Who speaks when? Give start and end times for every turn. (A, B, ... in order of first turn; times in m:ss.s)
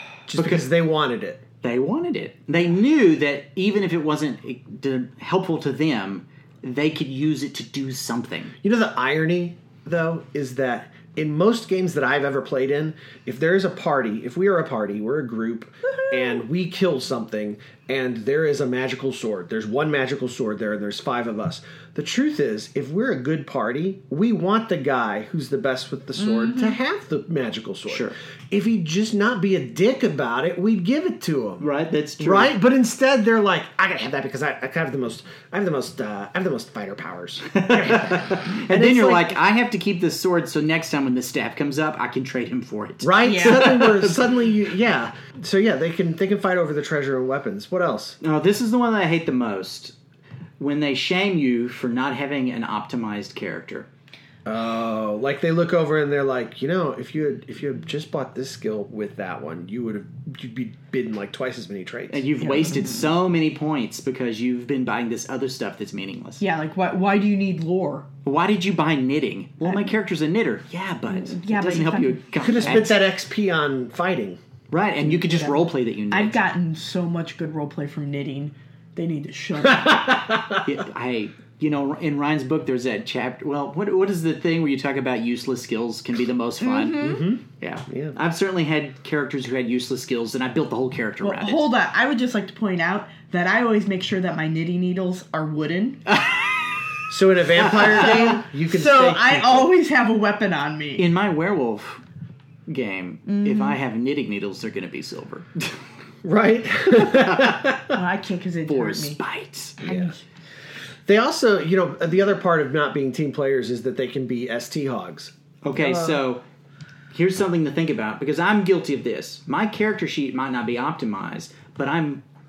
0:00.3-0:01.4 A
0:00.3-0:00.7 B
0:01.6-0:08.5 B
0:08.6-0:31.6 A
0:26.2-0:26.8 C
0:27.9-0:28.1 B
0:31.6-0:32.5 B
0:32.2-0:39.3 A
0:37.5-0:44.3 B
0:43.0-0:48.2 A
0:43.2-0:43.7 C
0:48.2-0:50.0 B
0:50.6-0:53.9 B
0:54.4-1:02.3 A
1:02.1-1:06.4 B
1:02.4-1:03.1 C
1:06.4-1:08.1 C
1:08.2-1:13.0 B
1:09.7-1:09.9 C
1:11.1-1:12.9 C
1:12.4-1:14.4 A
1:14.7-1:16.4 B
1:15.1-1:20.2 C
1:19.7-1:20.6 A
1:20.6-1:31.6 B
1:26.6-1:27.2 C
1:27.0-1:28.2 A
1:31.2-1:36.1 C
1:36.1-1:36.6 B
1:37.1-1:39.5 A
1:37.6-1:38.3 B
1:37.9-1:41.1 C
1:41.0-1:42.0 B
1:42.7-1:45.8 B
1:43.2-1:43.8 C
1:46.2-1:48.0 A
1:46.9-1:47.6 B
1:47.9-1:49.2 C
1:48.7-1:49.8 B
1:49.8-1:50.2 C
1:49.8-1:50.1 A
1:51.1-1:55.3 A
1:55.6-1:56.4 B
1:55.7-1:56.2 C
1:57.1-2:02.2 B